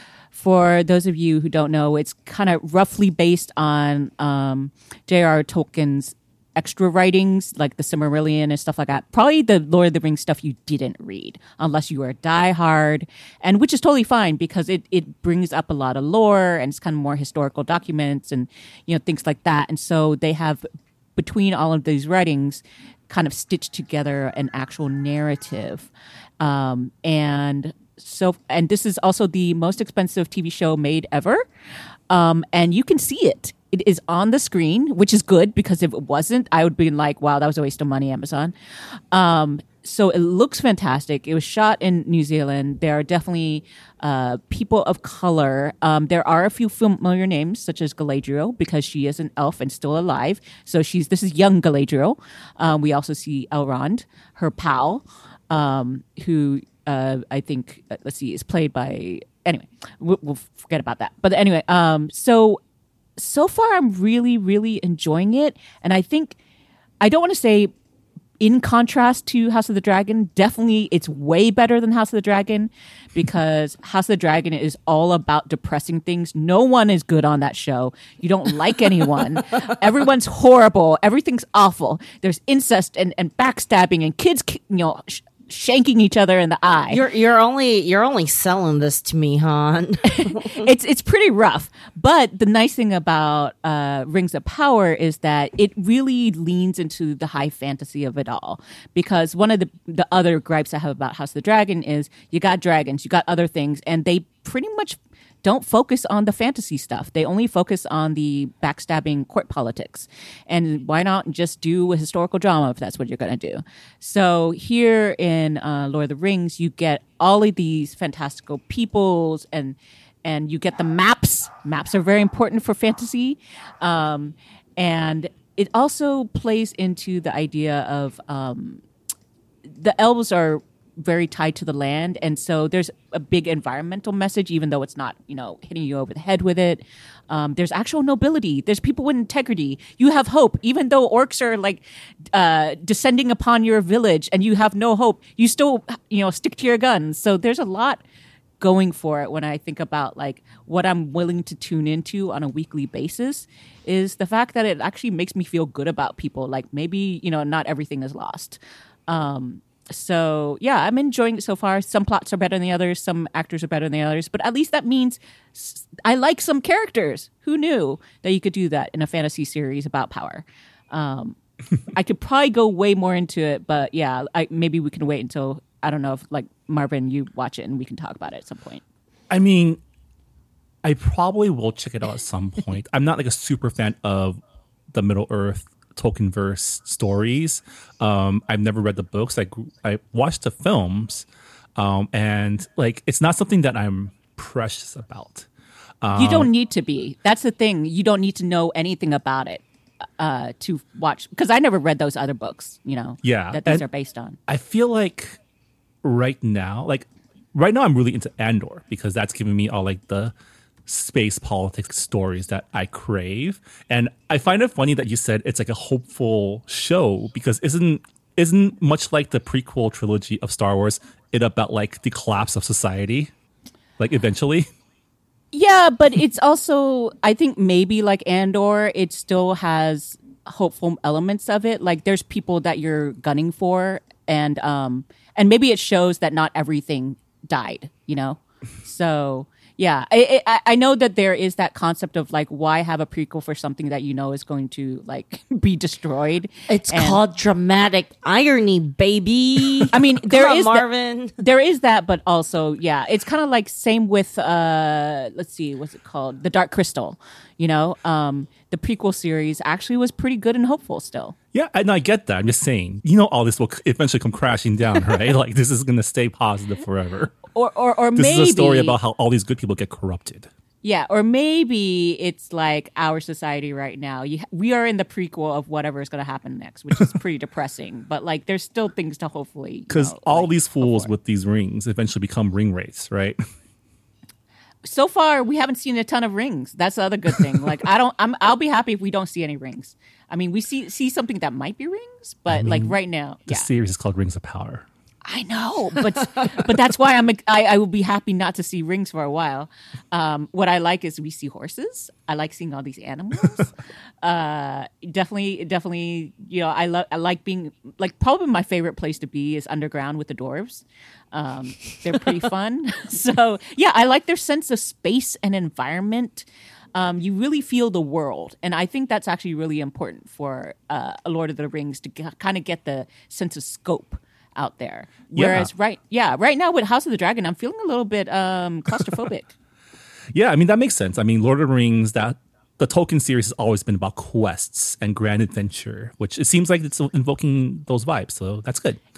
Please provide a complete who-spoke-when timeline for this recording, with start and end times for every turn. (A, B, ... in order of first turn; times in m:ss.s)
0:00.3-0:20.6 A
0:21.2-0:31.4 A
0:32.1-0:38.5 A
0:39.1-1:02.6 A
1:03.2-1:06.4 A
1:07.0-1:07.7 A
1:08.4-1:27.0 A
1:26.9-1:30.7 B
1:30.1-2:08.8 A
2:09.6-2:28.0 A
2:28.6-2:58.8 A
2:59.3-2:59.8 C
3:00.8-3:04.4 C
3:04.9-3:15.5 C
3:16.0-3:16.5 C
3:16.1-3:19.6 A
3:20.2-3:24.4 A
3:23.2-3:23.8 C
3:24.5-3:25.4 C
3:26.0-3:30.3 C
3:30.9-3:43.3 C
3:44.0-3:44.7 C
3:45.5-4:07.2 A
4:06.7-4:11.4 B
4:09.9-4:10.8 A
4:11.4-4:21.3 A
4:21.5-4:27.4 C
4:27.5-4:29.0 A
4:28.1-4:30.5 C
4:30.8-4:41.1 A
4:39.9-4:43.4 C
4:44.8-4:53.7 A
4:52.5-4:54.8 C
4:55.2-5:03.7 A
5:04.2-5:29.5 A
5:25.3-5:25.7 C
5:30.3-5:39.0 C